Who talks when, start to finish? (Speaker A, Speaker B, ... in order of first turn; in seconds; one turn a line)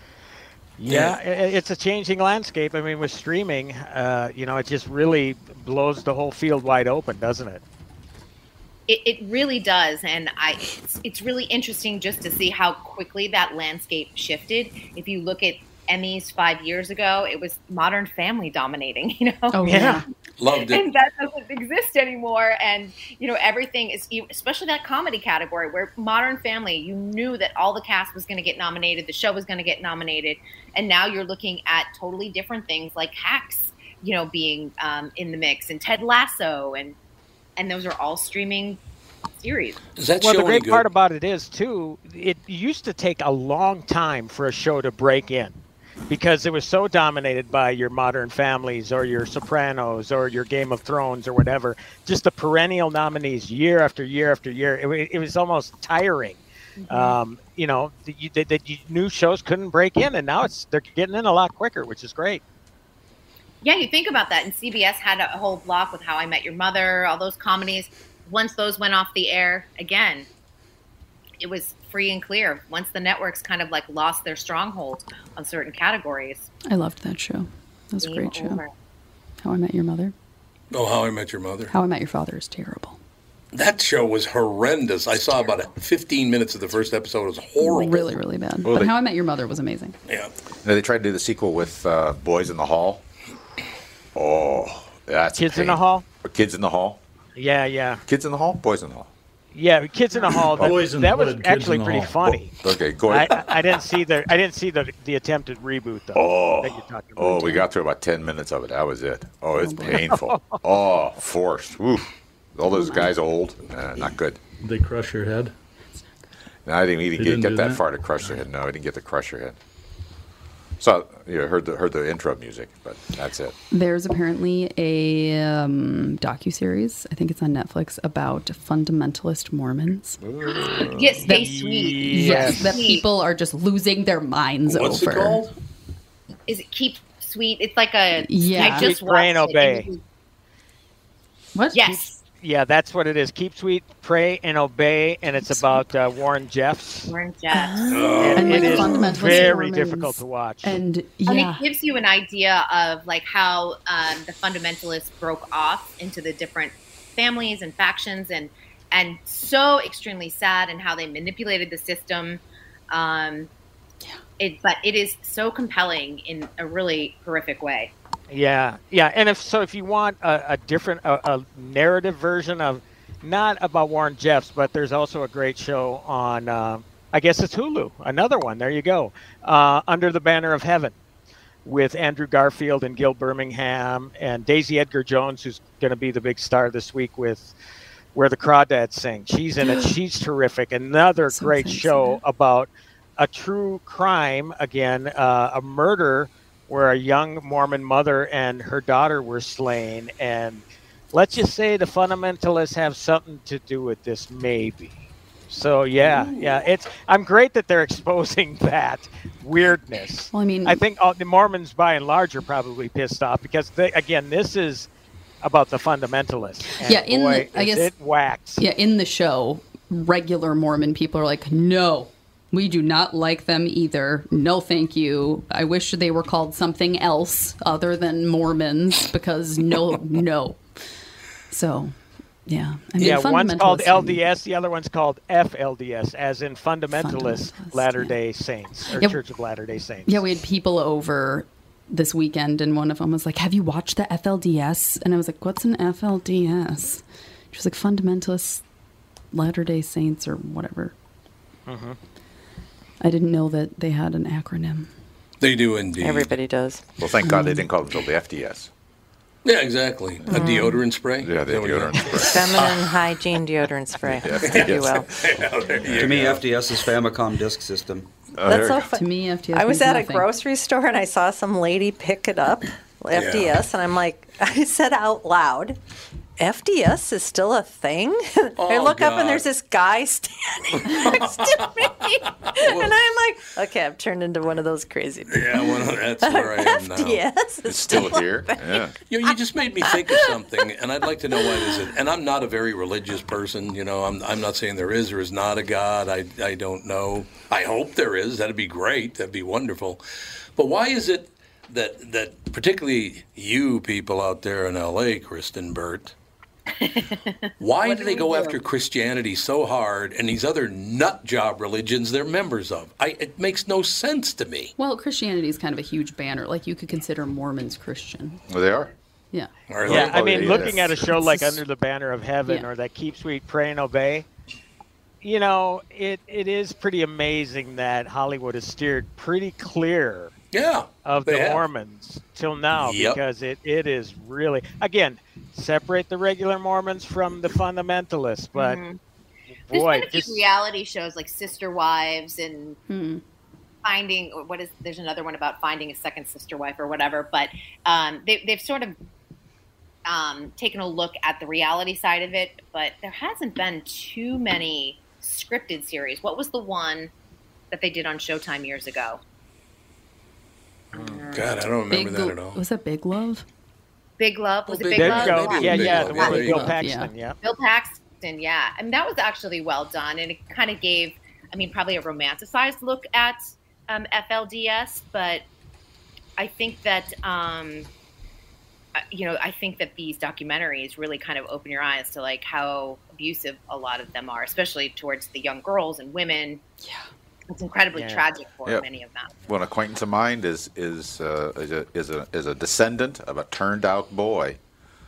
Speaker A: 0.8-7.6
Speaker B: 0.9-1.2
Speaker C: 8.9-20.0
Speaker D: 19.5-20.0
Speaker A: 19.6-20.0
Speaker B: 20.4-20.8
Speaker C: 20.5-37.0
Speaker C: 37.6-38.8
Speaker C: 39.4-39.8
Speaker B: 40.0-40.9
Speaker A: 40.2-45.6
Speaker A: 46.1-62.4
Speaker C: 56.8-57.2
Speaker C: 63.6-70.3
Speaker C: 71.4-76.5
Speaker D: 76.7-78.6
Speaker C: 78.0-78.7
Speaker D: 79.4-80.1
Speaker B: 80.7-81.7
Speaker D: 81.7-83.0
Speaker B: 83.5-88.1
Speaker D: 87.6-89.9
Speaker E: 88.6-88.9
Speaker B: 90.1-90.3
Speaker E: 90.6-93.0
Speaker E: 94.1-97.0
Speaker A: 95.3-96.0
Speaker A: 97.3-98.0
Speaker E: 98.1-99.1
Speaker A: 99.5-102.5
Speaker F: 100.5-102.4
Speaker E: 102.6-103.5
Speaker A: 103.1-107.6
Speaker E: 106.1-114.4
Speaker D: 109.6-110.1
Speaker A: 109.9-110.6
Speaker D: 112.7-113.1
Speaker F: 114.6-115.5
Speaker E: 116.7-119.6
Speaker F: 117.2-117.8
Speaker E: 120.8-123.5
Speaker D: 123.7-130.2
Speaker E: 130.4-130.8
Speaker C: 130.7-133.0
Speaker A: 131.2-132.8
Speaker D: 131.2-135.5
Speaker B: 134.7-135.5
Speaker C: 136.5-140.0
Speaker D: 138.3-138.9
Speaker A: 138.5-139.9
Speaker D: 141.5-141.9
Speaker C: 141.7-142.2
Speaker A: 142.2-147.1
Speaker D: 145.4-145.9
Speaker C: 147.1-147.9
Speaker G: 147.5-149.0
Speaker B: 147.9-149.1
Speaker A: 148.2-150.8
Speaker D: 148.3-151.6
Speaker C: 148.4-148.9
Speaker C: 151.3-163.5
Speaker C: 164.4-167.9
Speaker A: 168.3-180.9
Speaker A: 181.6-187.5
Speaker A: 188.1-214.9
Speaker D: 189.6-189.9
Speaker D: 191.3-192.2
Speaker D: 210.3-210.8
Speaker A: 215.4-218.6
Speaker D: 216.8-217.9
Speaker D: 218.6-230.6
Speaker D: 231.5-234.2
Speaker A: 233.0-240.2
Speaker D: 236.9-238.1
Speaker D: 238.8-239.2
Speaker D: 240.1-248.6
Speaker D: 249.3-250.9
Speaker A: 251.7-252.0
Speaker D: 253.0-254.9
Speaker B: 255.4-256.3
Speaker G: 256.0-256.8
Speaker E: 257.0-258.7
Speaker D: 257.2-257.6
Speaker B: 259.4-262.8
Speaker G: 260.3-260.8
Speaker D: 260.3-260.7
Speaker E: 261.2-262.7
Speaker G: 262.2-265.1
Speaker E: 264.2-265.1
Speaker B: 264.4-266.4
Speaker H: 265.9-268.1
Speaker E: 268.4-268.9
Speaker G: 268.4-275.8
Speaker D: 268.9-270.3
Speaker B: 273.1-273.6
Speaker G: 276.4-288.9
Speaker B: 278.6-279.5
Speaker B: 280.8-281.9
Speaker B: 282.4-282.9
Speaker B: 285.3-287.2
Speaker E: 287.6-288.9
Speaker B: 289.1-300.0
Speaker G: 289.9-290.4
Speaker G: 291.4-291.8
Speaker B: 300.6-306.1
Speaker C: 306.8-308.6
Speaker B: 307.6-314.7
Speaker D: 314.8-318.4
Speaker E: 318.5-318.9
Speaker B: 319.7-320.4
Speaker E: 319.8-321.1
Speaker A: 319.9-324.2
Speaker D: 320.4-321.6
Speaker A: 325.2-330.3
Speaker B: 330.5-331.6
Speaker A: 331.0-338.8
Speaker B: 332.8-333.2
Speaker C: 338.5-339.0
Speaker A: 339.7-340.5
Speaker C: 339.7-342.8
Speaker D: 342.9-343.2
Speaker C: 343.8-348.9
Speaker C: 350.0-357.1
Speaker C: 357.7-359.2
Speaker C: 360.9-361.5
Speaker B: 361.3-362.6
Speaker D: 361.9-363.4
Speaker C: 364.2-366.5
Speaker B: 364.7-366.7
Speaker A: 364.9-367.4
Speaker D: 366.3-367.1
Speaker C: 367.4-375.4
Speaker C: 376.4-377.9
Speaker C: 378.9-386.6
Speaker C: 387.5-389.4
Speaker A: 387.9-388.2
Speaker E: 389.5-394.6